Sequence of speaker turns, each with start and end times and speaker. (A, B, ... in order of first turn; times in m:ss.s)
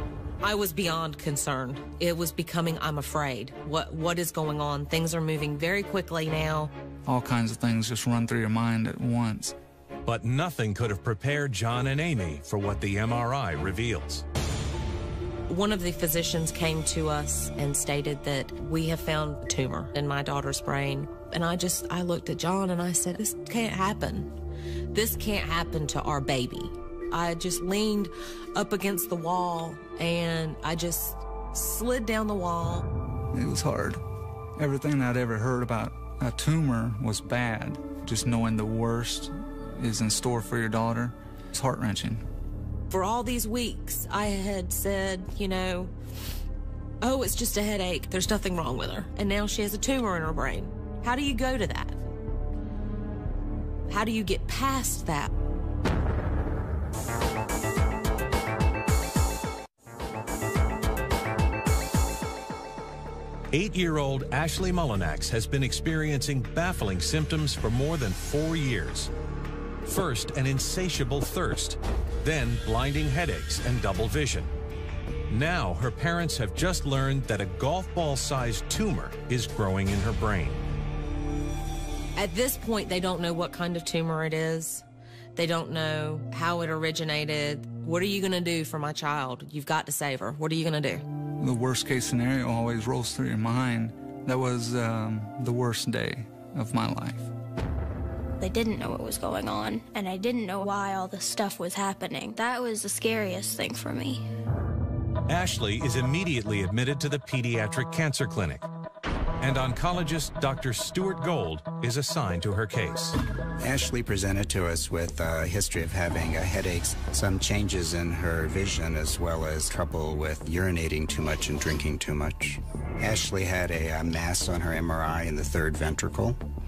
0:00.4-0:06.7 A
0:07.0-0:09.6 B
0:10.0-0:14.2 C
0:15.5-0:24.3 A
0:24.9-0:32.9 A
0:33.3-0:34.0 B
0:34.6-0:42.3 B
0:42.9-0:45.9 A
0:47.0-0:52.0 A
0:53.9-0:55.3 A
1:03.5-1:09.1 C
1:09.8-1:14.5 C
1:15.3-1:20.6 C
1:22.2-1:31.1 A
1:31.4-1:37.3 B
1:38.4-1:44.3 D
1:45.3-1:48.7 C
1:49.4-1:53.2 C
1:53.6-2:06.4 E